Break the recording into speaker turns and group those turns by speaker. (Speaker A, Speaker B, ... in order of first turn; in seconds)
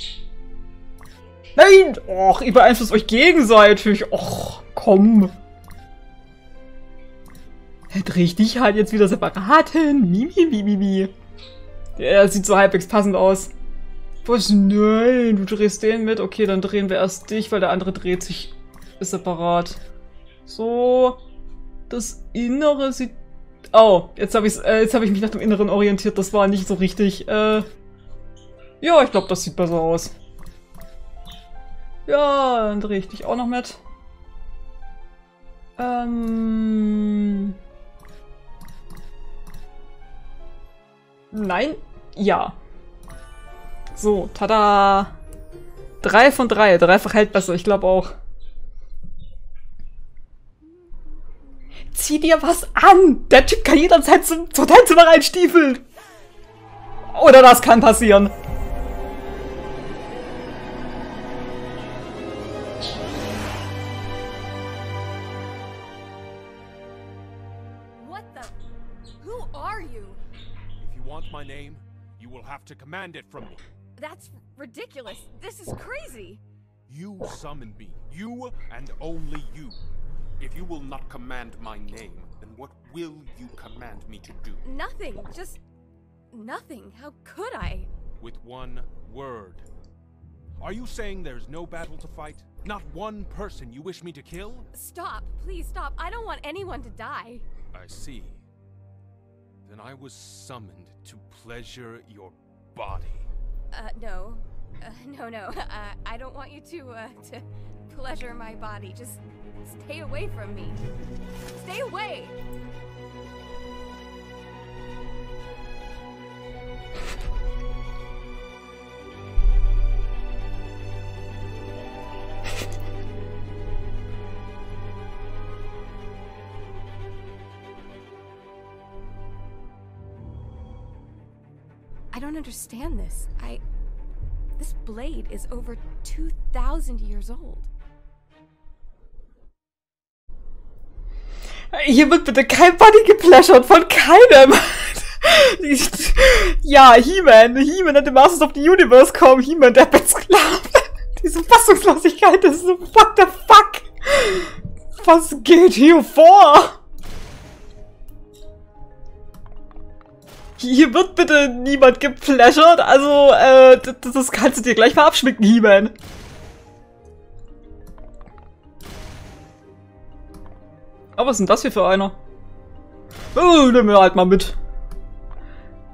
Speaker A: 1.6-5.3, 7.9-11.1, 12.0-13.5, 14.2-19.8, 20.5-21.2, 21.9-23.1, 23.7-27.7, 28.8-30.1, 32.1-33.8, 35.8-37.5, 41.3-42.5, 43.9-45.1, 46.0-48.1, 51.9-55.8, 57.1-58.3, 141.7-156.8, 160.6-165.9, 171.2-172.2, 173.3-174.6
Speaker B: 68.0-68.5, 69.2-70.2, 74.0-76.4, 84.7-85.6, 86.3-87.9, 94.7-97.4, 103.7-110.8, 111.5-112.4, 132.1-133.6, 134.6-137.7
Speaker C: 70.8-73.6, 76.9-79.8, 80.4-84.6, 88.2-89.7, 90.6-94.7, 97.7-98.4, 99.6-103.3